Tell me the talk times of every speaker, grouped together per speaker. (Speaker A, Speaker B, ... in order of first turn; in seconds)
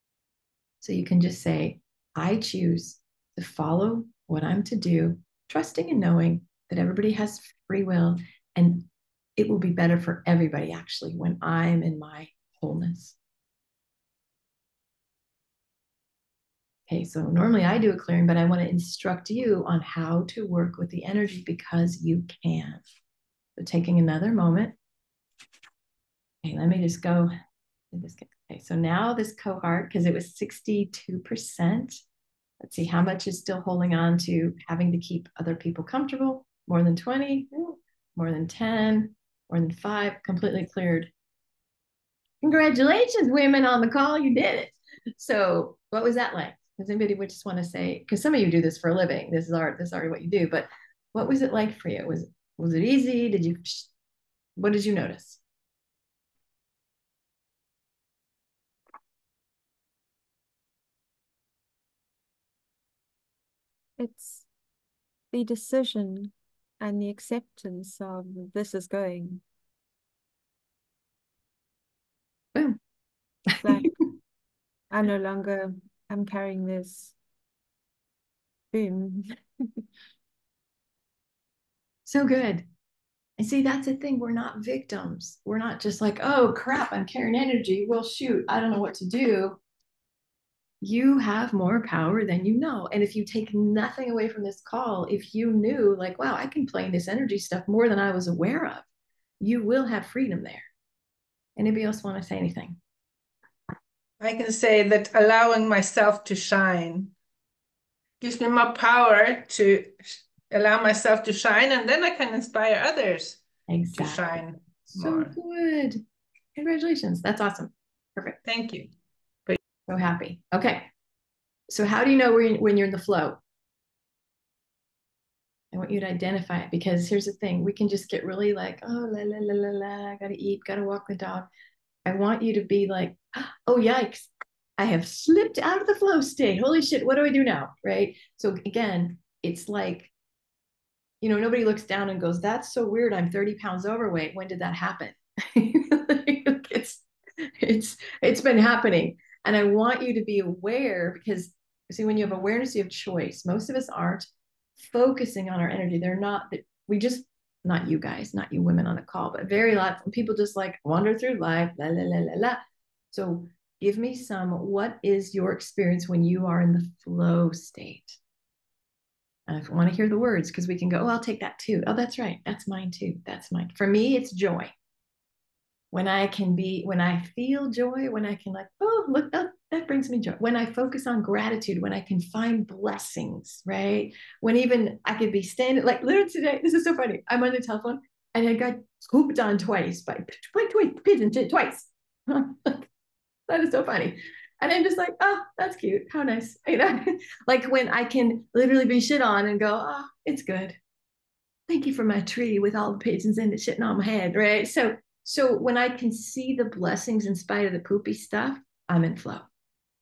Speaker A: 0.8-13.2, 16.9-22.8, 23.6-24.8, 26.4-27.3, 27.9-32.0, 32.6-41.1, 42.4-53.9, 54.6-55.4, 73.5-73.9, 82.0-82.7, 83.4-89.6, 90.8-98.8, 99.4-100.7, 101.6-102.8, 113.7-114.2, 115.0-116.0, 116.5-118.4, 119.9-120.9, 121.7-123.4, 125.7-131.5, 132.0-140.1, 141.2-154.2, 154.8-162.6, 163.1-168.2, 169.5-174.7, 175.9-192.8, 193.5-200.8, 201.7-209.4
Speaker B: 64.0-64.4, 65.3-69.4, 73.6-73.9, 74.9-77.1, 78.7-79.4
Speaker C: 104.2-107.1, 108.2-113.4, 114.0-115.3, 118.4-118.9